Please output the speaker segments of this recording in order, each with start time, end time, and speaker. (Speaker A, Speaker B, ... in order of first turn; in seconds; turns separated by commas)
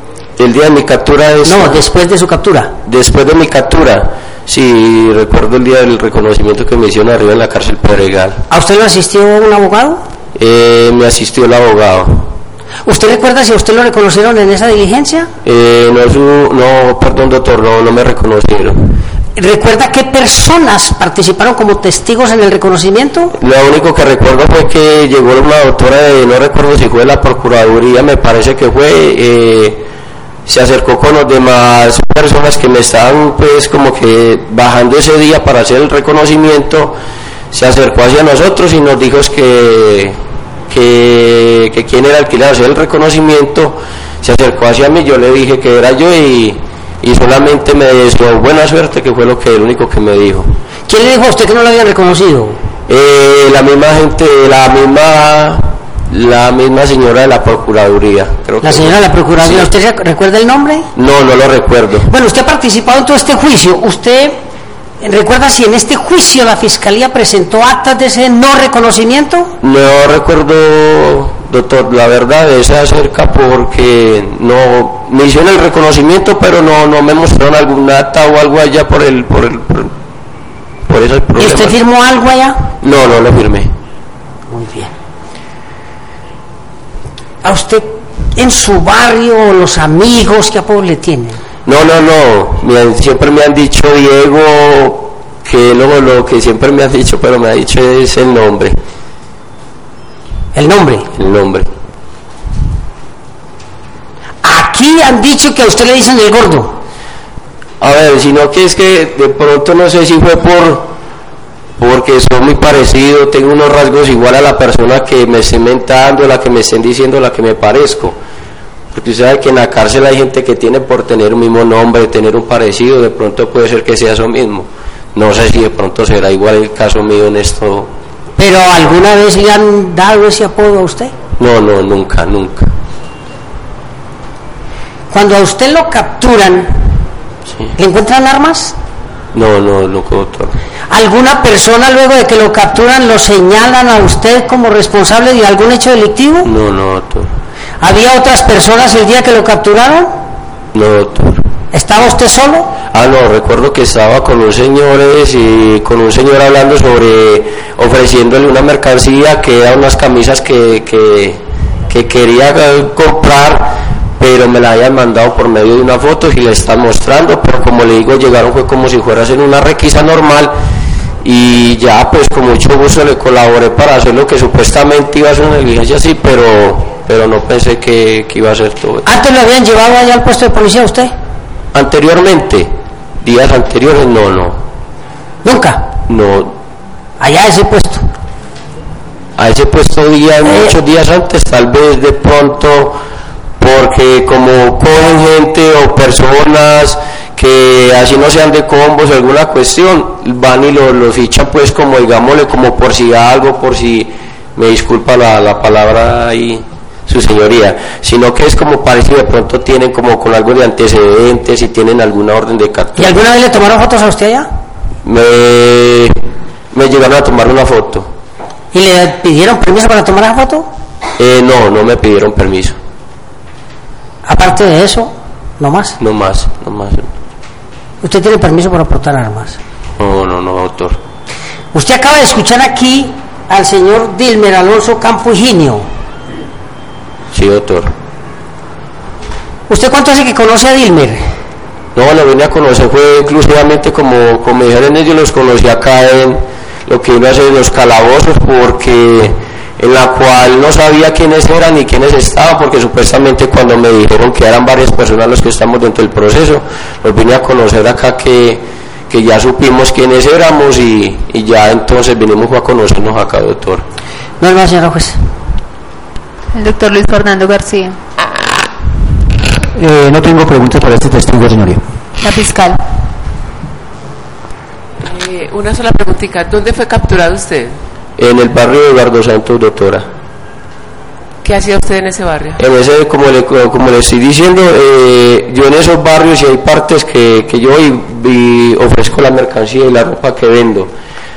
Speaker A: 0.4-1.8, Speaker B: 1.4-2.8, Speaker A: 2.8-8.4, Speaker B: 8.5-10.0, Speaker A: 10.3-12.3, Speaker B: 12.8-15.3, Speaker A: 15.4-18.9, Speaker B: 19.4-23.3, Speaker A: 23.4-29.8, Speaker A: 30.4-37.0, Speaker A: 37.5-40.2, Speaker A: 40.7-50.5, Speaker B: 50.9-52.6, Speaker A: 52.9-59.7, Speaker B: 58.6-60.9, Speaker A: 61.0-62.1, Speaker B: 62.0-64.4, Speaker B: 65.0-69.5, Speaker A: 69.6-79.9, Speaker A: 80.8-81.8, Speaker B: 81.4-82.7, Speaker A: 82.8-83.7, Speaker B: 84.5-84.9, Speaker B: 87.4-91.4, Speaker A: 91.7-98.8, Speaker B: 100.5-101.0, Speaker A: 101.2-101.7, Speaker B: 104.4-106.8, Speaker A: 107.8-110.9, Speaker A: 111.8-118.2, Speaker A: 118.9-127.9, Speaker B: 128.4-131.1, Speaker A: 131.4-132.7, Speaker B: 135.1-136.9, Speaker B: 137.8-138.8, Speaker A: 139.3-140.5, Speaker B: 140.9-146.5, Speaker A: 146.4-147.3, Speaker B: 147.8-150.2, Speaker A: 150.7-151.4, Speaker B: 151.7-152.7, Speaker A: 152.8-170.5, Speaker A: 171.2-179.1, Speaker B: 179.1-181.1, Speaker A: 181.7-182.7, Speaker A: 183.2-184.6, Speaker B: 185.4-185.9, Speaker A: 186.1-186.5, Speaker B: 187.2-188.1, Speaker A: 189.4-193.0, Speaker B: 190.4-190.8, Speaker A: 193.6-213.2, Speaker B: 213.0-214.5, Speaker A: 215.0-216.1, Speaker A: 216.7-218.1, Speaker B: 218.7-220.7, Speaker A: 221.2-222.8, Speaker B: 224.2-226.0, Speaker A: 226.0-227.1, Speaker B: 228.0-229.6, Speaker A: 230.0-231.0, Speaker B: 231.7-235.9, Speaker A: 237.3-237.9, Speaker B: 239.7-241.2, Speaker A: 241.9-263.8, Speaker B: 264.4-265.2, Speaker C: 266.5-268.0, Speaker D: 269.8-271.8, Speaker C: 272.2-272.8, Speaker E: 275.0-277.8, Speaker A: 278.2-280.1, Speaker E: 281.4-282.6, Speaker A: 282.6-290.9